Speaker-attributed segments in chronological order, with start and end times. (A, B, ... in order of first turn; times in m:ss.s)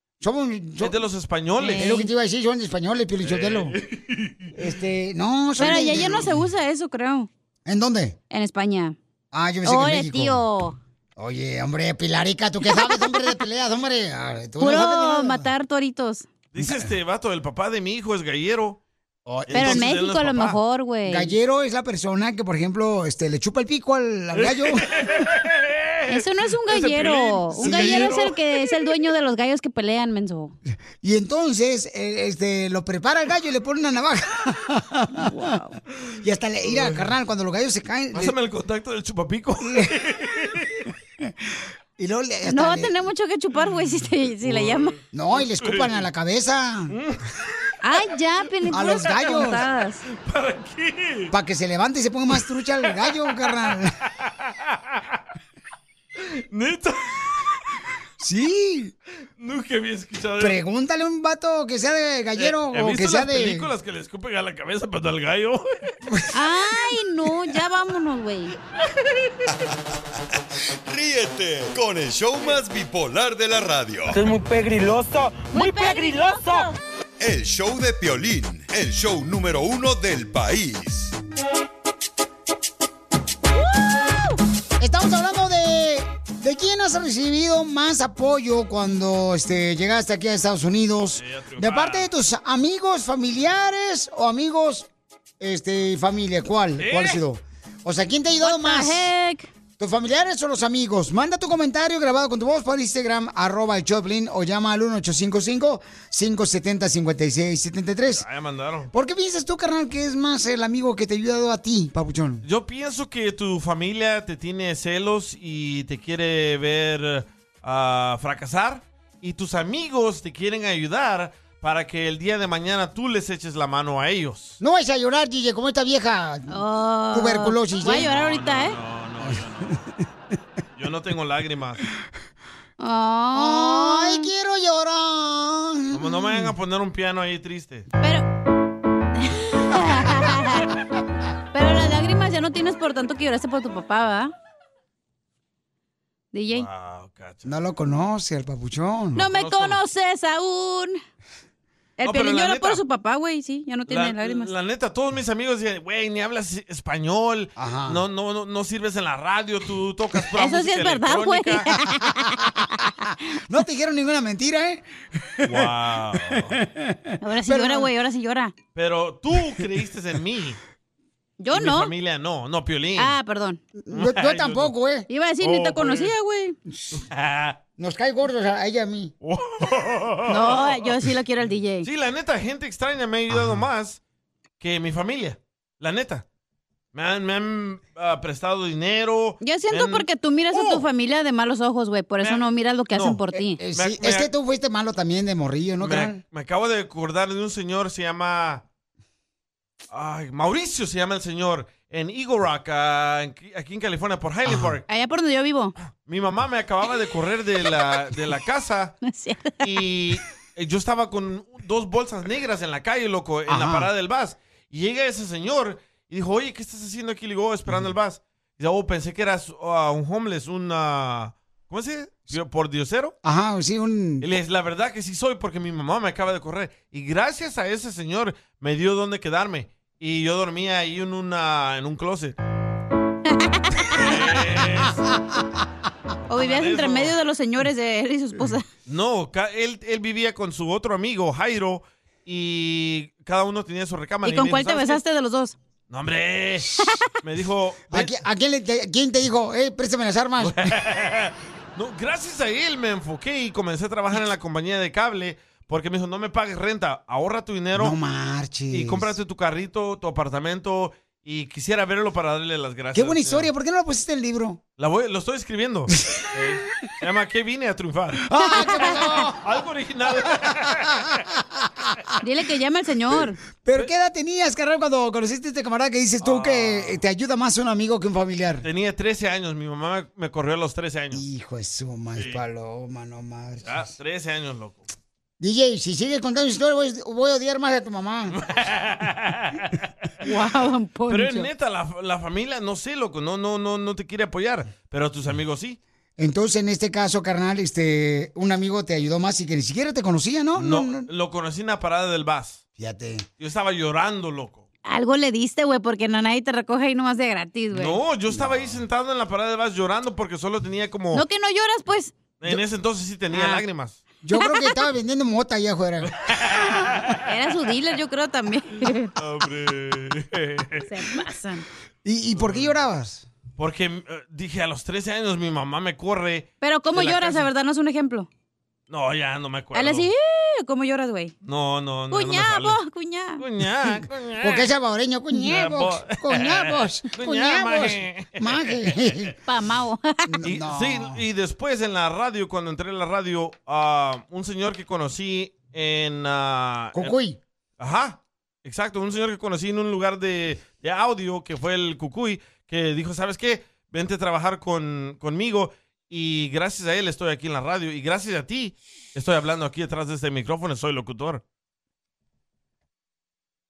0:00.2-0:01.0 A
0:00.8-0:01.9 B
0:01.6-0:02.1 C
0:01.7-0:03.7 A
0:03.2-0:04.5 B
0:04.6-0:06.3 A
0:05.6-0:07.3 C
0:07.6-0:08.2 A
0:08.3-0:09.0 C
0:09.3-0:10.4 A
0:09.6-0:10.8 C
0:11.2-0:15.5 A
0:12.7-0:13.2 C
0:14.6-0:16.3 C
0:16.5-0:18.8 B
0:16.6-0:16.9 A
0:19.2-0:19.9 A
0:19.5-0:20.6 B
0:19.5-0:21.3 C
0:21.0-0:24.9 A
0:24.3-0:28.4 B
0:26.1-0:30.5 C
0:27.6-0:28.2 A
0:31.0-0:35.6 A
0:35.2-0:35.8 C
0:36.2-0:38.3 A
0:36.6-0:37.1 B
0:38.1-0:40.9 B
0:39.6-0:39.9 A
0:42.0-0:42.9 A
0:42.5-0:44.9 C
0:44.4-0:46.0 B
0:45.1-0:47.0 A
0:46.9-0:47.2 B
0:47.8-0:50.0 C
0:48.7-0:49.6 A
0:50.1-0:51.3 B
0:51.3-0:53.9 A
0:53.0-0:55.2 B
0:56.2-0:57.4 B
0:58.2-0:58.9 A
0:59.4-1:00.6 B
1:00.4-1:03.7 A
1:02.4-1:05.9 B
1:06.3-1:08.5 C
1:10.8-1:14.2 D
1:14.1-1:16.7 E
1:15.5-1:16.7 C
1:17.2-1:21.1 D
1:24.8-1:34.9 A
1:31.1-1:32.1 B
1:35.4-1:39.1 A
1:36.8-1:37.2 B
1:38.4-1:39.5 C
1:39.8-1:48.2 A
1:48.1-1:48.9 B
1:48.9-1:52.4 A
1:52.4-2:04.6 B
2:04.6-2:06.6 A
2:06.5-2:08.8 C
2:07.1-2:08.1 A
2:08.0-2:09.8 B
2:10.8-2:11.8 B
2:12.8-2:14.3 C
2:13.3-2:16.5 A
2:15.9-2:17.9 B
2:18.0-2:18.2 C
2:19.2-2:20.7 C
2:21.5-2:24.3 C
2:26.3-2:26.6 C
2:26.5-2:27.5 B
2:27.4-2:29.3 A
2:29.1-2:31.0 C
2:29.2-2:29.8 B
2:32.0-2:34.5 C
2:32.0-2:32.8 B
2:33.9-2:41.8 B
2:37.6-2:38.0 A
2:40.4-2:42.5 C
2:42.4-2:42.8 A
2:43.5-2:45.7 A
2:45.4-2:46.6 B
2:46.3-2:47.9 A
2:47.2-2:48.5 C
2:48.7-2:50.6 B
2:51.4-2:51.9 C
2:51.5-2:53.1 B
2:53.0-2:53.6 C
2:53.8-2:55.1 A
2:53.9-2:54.7 B
2:55.1-2:56.6 C
2:55.4-2:56.1 B
2:56.9-2:57.6 B
2:57.8-2:59.1 A
2:59.2-3:00.9 B
3:00.3-3:01.9 C
3:01.8-3:04.0 B
3:03.3-3:03.6 A
3:04.6-3:06.2 B
3:06.9-3:10.9 B
3:09.4-3:13.6 C
3:12.2-3:13.2 B
3:13.3-3:16.2 A
3:13.7-3:14.3 B
3:15.8-3:18.6 B
3:19.9-3:24.8 B
3:24.4-3:24.8 A
3:24.9-3:25.7 C
3:25.8-3:29.0 B
3:29.0-3:29.6 C
3:29.6-3:43.1 B
3:33.5-3:33.9 A
3:43.2-3:44.3 A
3:44.2-3:52.4 B
3:53.3-3:54.0 C
3:54.0-3:55.0 B
3:56.3-3:58.6 C
3:56.3-3:57.1 B
3:58.8-4:05.0 B
4:04.2-4:05.6 C
4:05.9-4:08.1 B
4:07.9-4:10.7 A
4:10.4-4:18.0 B
4:17.7-4:19.1 A
4:18.7-4:23.5 B
4:22.9-4:24.6 A
4:24.8-4:28.2 B
4:28.2-4:29.5 A
4:28.5-4:28.9 C
4:29.4-4:31.2 B
4:30.3-4:31.9 A
4:32.2-4:33.4 C
4:33.6-4:38.6 A
4:36.2-4:37.0 B
4:38.6-4:41.2 B
4:41.1-4:43.8 A
4:42.2-4:42.4 B
4:43.6-4:44.9 B
4:45.4-4:48.4 A
4:48.4-4:49.8 B
4:50.2-4:51.5 C
4:51.1-4:55.8 B
4:56.2-5:01.1 A
5:00.6-5:02.6 B
5:02.8-5:03.3 A
5:03.4-5:04.6 B
5:04.8-5:08.0 C
5:07.7-5:11.2 B
5:08.3-5:08.8 A
5:11.1-5:12.1 C
5:12.4-5:14.0 B
5:14.2-5:16.1 A
5:14.4-5:14.7 C
5:16.2-5:17.2 B
5:17.3-5:19.1 C
5:19.2-5:20.9 B
5:20.8-5:21.6 C
5:22.0-5:23.3 A
5:22.3-5:22.7 B
5:23.6-5:27.5 B
5:26.6-5:28.3 C
5:28.9-5:30.1 B
5:29.7-5:31.3 C
5:31.4-5:32.8 B
5:32.1-5:33.4 C
5:33.4-5:34.7 B
5:34.0-5:39.3 A
5:35.4-5:39.2 B
5:39.5-5:40.3 C
5:40.3-5:41.2 A
5:40.4-5:47.1 B
5:46.9-5:47.4 A
5:47.8-6:01.4 B